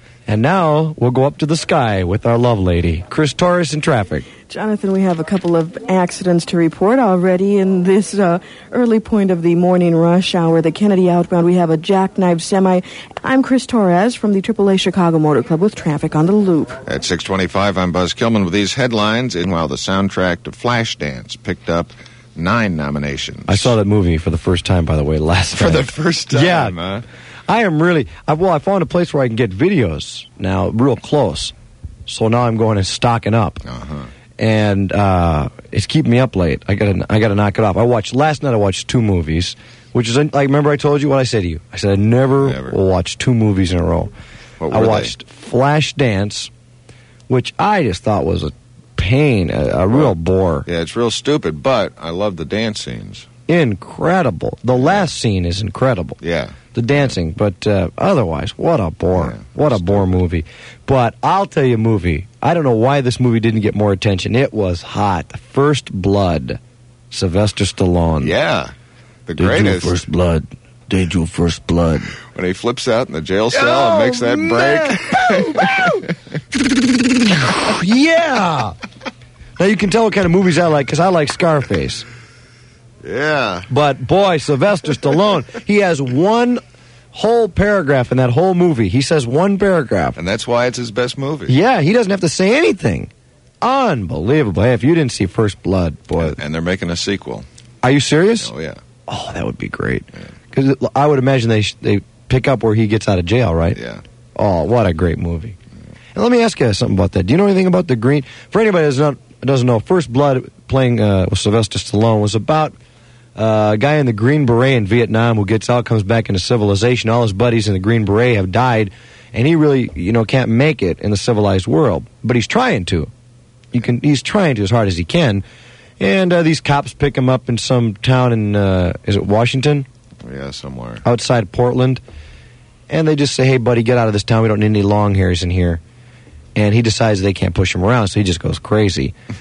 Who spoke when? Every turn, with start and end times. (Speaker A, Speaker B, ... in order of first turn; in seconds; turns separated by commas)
Speaker A: 0.3-4.2, Speaker B: 4.4-16.8, Speaker C: 16.8-23.8, Speaker A: 23.5-26.7, Speaker C: 25.6-27.0, Speaker A: 27.5-31.5, Speaker A: 32.1-33.6, Speaker C: 33.6-34.1, Speaker A: 34.4-44.1, Speaker C: 42.4-42.8, Speaker C: 44.6-45.1, Speaker A: 44.7-46.5, Speaker A: 47.3-50.6, Speaker C: 50.6-53.3, Speaker A: 53.5-56.2, Speaker C: 54.7-55.1, Speaker C: 56.2-57.1, Speaker A: 56.7-66.6, Speaker C: 59.1-60.2, Speaker A: 67.1-68.3, Speaker C: 68.2-68.7, Speaker C: 69.3-70.0, Speaker A: 69.4-72.0, Speaker C: 72.3-76.1, Speaker A: 73.5-76.0, Speaker A: 77.0-78.8, Speaker A: 79.6-82.0, Speaker C: 83.0-83.7, Speaker A: 83.7-86.6, Speaker A: 87.1-90.2, Speaker C: 90.2-91.6, Speaker A: 91.5-93.1, Speaker A: 93.6-96.4, Speaker C: 96.2-97.5, Speaker A: 97.8-98.5, Speaker C: 98.4-98.8, Speaker A: 99.1-103.8, Speaker C: 103.7-104.0, Speaker A: 104.3-105.5, Speaker A: 106.1-112.7, Speaker A: 113.3-123.1, Speaker A: 123.7-125.4, Speaker A: 126.0-129.8, Speaker C: 130.2-131.0, Speaker A: 131.0-132.0, Speaker A: 132.9-135.8, Speaker A: 136.5-139.1